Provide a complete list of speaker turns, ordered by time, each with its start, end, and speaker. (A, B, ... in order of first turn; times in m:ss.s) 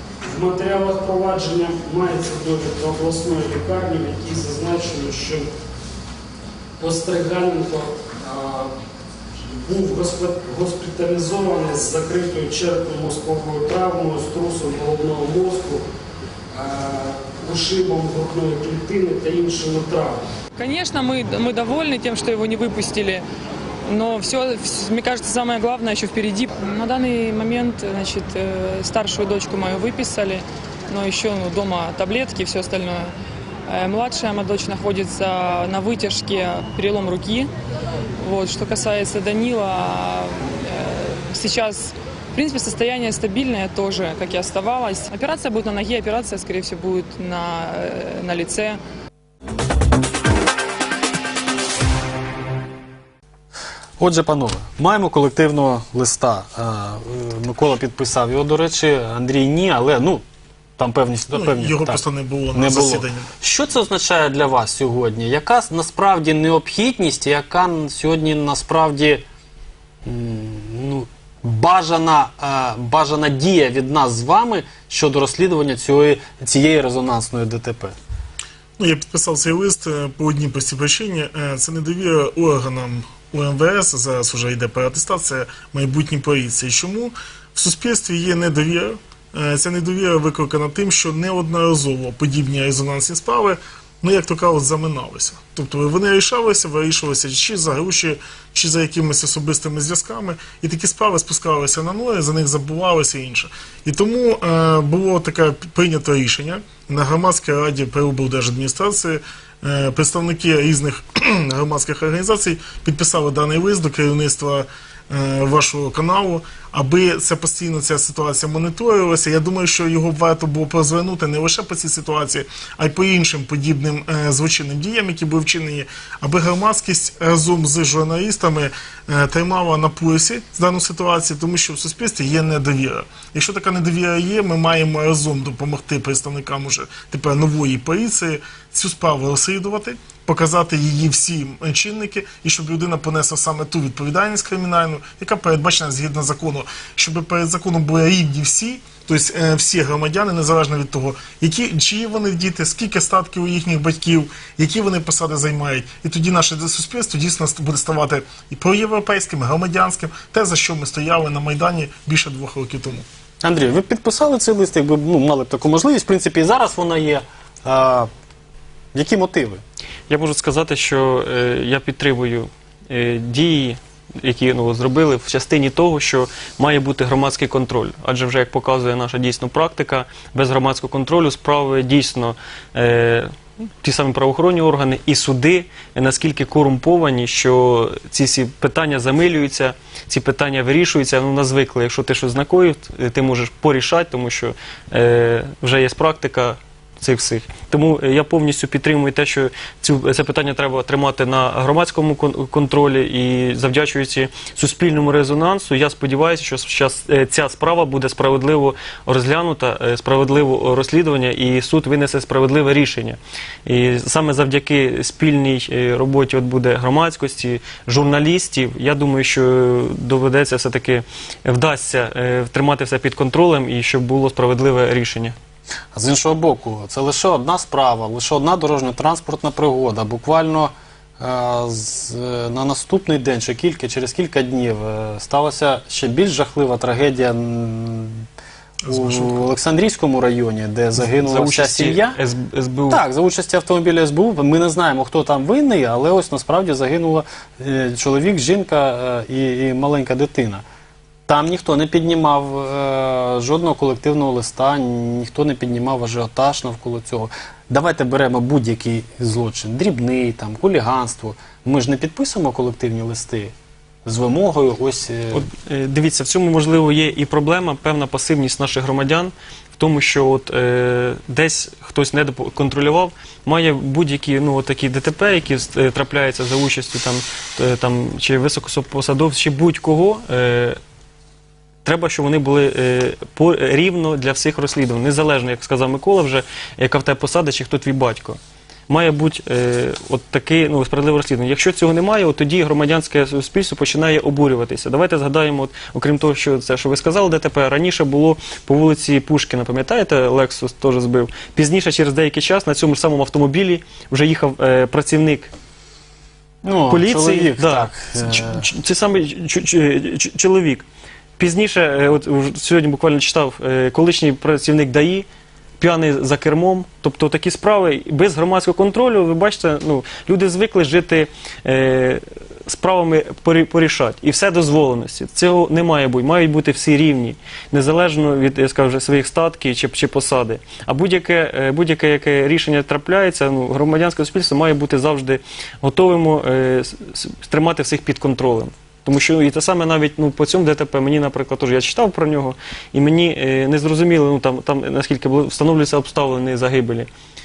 0:00.2-0:05.5 A
0:06.8-0:08.7 A
0:09.5-0:15.8 A
0:16.5-0:20.2 A
0:20.6-0:23.2 B
0:23.8-0:33.1 B
0:33.7-0:37.5 B
0:38.2-0:48.8 B
0:54.0-1:00.2 C
1:00.8-1:02.0 C
1:01.3-1:03.3 D
1:02.5-1:09.2 C
1:10.0-1:18.0 C
1:18.8-2:43.1 D
2:43.4-2:48.1 C
2:48.9-2:49.6 C
2:50.1-3:45.3 E
3:45.9-3:58.2 C
3:58.9-3:59.4 D
3:58.9-4:02.2 C
4:01.0-4:03.0 E
4:02.9-4:10.6 C
4:11.3-4:23.5 C
4:24.1-4:25.4 C
4:25.3-4:40.8 E
4:41.8-4:48.4 E
4:48.9-5:05.5 E
5:06.6-5:08.7 C
5:06.9-5:10.8 E
5:11.4-5:15.2 E
5:15.8-5:47.1 E